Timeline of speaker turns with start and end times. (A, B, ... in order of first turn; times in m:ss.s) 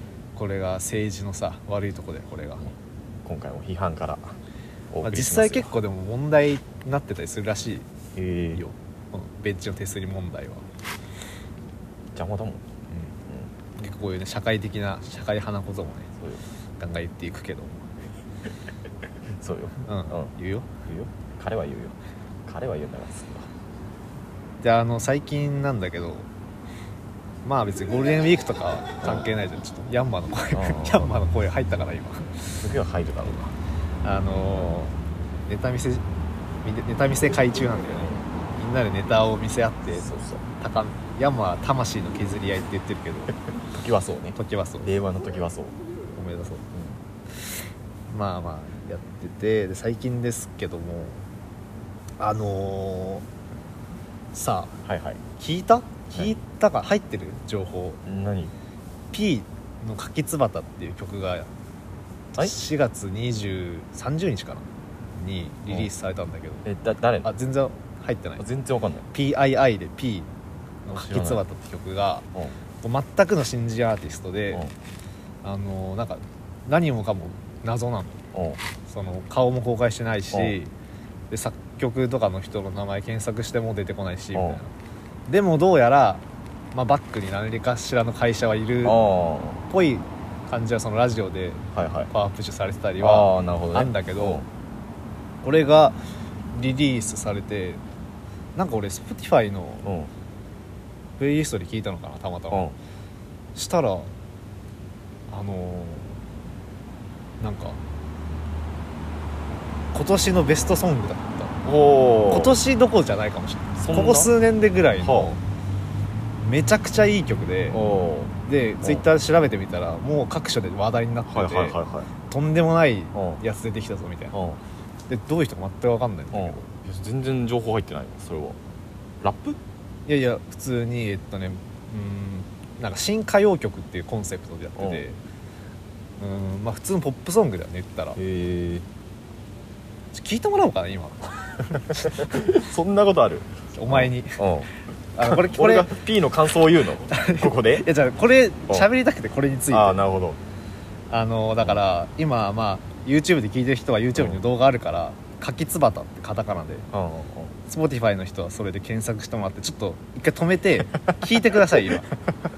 0:00.3-0:02.7 A
0:03.2-0:04.4 B
0:04.9-0:05.7 B
0:05.0-0:07.9 A
0:08.2-0:08.6 B
0:08.5-0:10.7 A
0:12.1-0:12.6 B
0:12.9-0:13.1 A
0:13.3-0:13.5 B
0:13.8-0:16.1 A
0:16.8-0:17.9 A
0:19.3-0:20.3 B
0:19.8-0:20.7 A
0:20.8-0:23.5 B
0:24.6-0:26.3 A
0:27.4-0:32.6 A
0:29.0-0:29.3 B
0:30.5-0:31.1 B
0:32.6-0:33.6 B
0:34.0-0:36.0 A
0:36.6-0:40.0 A
0:40.0-0:40.4 B
0:40.6-0:43.3 A
0:43.7-0:45.8 B
0:44.4-0:44.9 A
0:46.1-0:46.7 A
0:46.7-0:47.0 B
0:48.1-0:51.3 A
0:52.2-0:53.2 A
0:54.3-0:54.8 A
0:54.8-0:55.2 B
0:55.4-0:58.0 A
0:58.0-0:58.5 B
0:59.1-1:01.5 A
1:02.4-1:06.6 A
1:06.6-1:07.3 B
1:07.2-1:08.4 A
1:08.4-1:09.1 B
1:09.1-1:10.3 A
1:10.9-1:12.3 A
1:10.9-1:11.4 B
1:12.8-1:14.6 A
1:15.4-1:18.2 A
1:18.3-1:18.6 B
1:18.9-1:20.7 A
1:21.3-1:24.7 A
1:24.3-1:24.6 B
1:25.3-1:29.0 A
1:28.8-1:29.6 B
1:29.7-1:34.4 A
1:31.7-1:32.1 B
1:33.0-1:34.4 B
1:35.4-1:36.0 A
1:36.5-1:37.8 A
1:38.6-1:39.9 A
1:39.8-1:40.1 B
1:41.2-1:42.7 A
1:42.5-1:42.8 B
1:43.6-1:44.1 A
1:45.3-1:46.2 A
1:47.4-1:47.8 A
1:49.9-1:51.6 A
1:51.6-1:52.6 B
1:52.3-1:55.4 A
1:53.8-1:54.3 B
1:55.0-1:55.3 B
1:56.4-1:57.8 A
1:57.7-1:59.0 B
1:58.4-2:01.8 A
2:01.3-2:02.1 B
2:02.3-2:04.4 A
2:03.1-2:03.4 B
2:04.3-2:04.6 B
2:05.1-2:06.7 A
2:06.3-2:08.6 B
2:09.2-2:09.6 B
2:10.1-2:15.2 A
2:14.8-2:15.0 B
2:16.2-2:18.2 A
2:18.2-2:18.8 B
2:20.1-2:22.5 A
2:21.7-2:27.9 B
2:23.7-2:24.5 A
2:25.2-2:25.9 A
2:27.1-2:30.0 A
2:29.7-2:30.4 B
2:31.1-2:36.9 A
2:36.9-2:37.6 B
2:37.7-2:42.1 A
2:41.0-2:42.0 B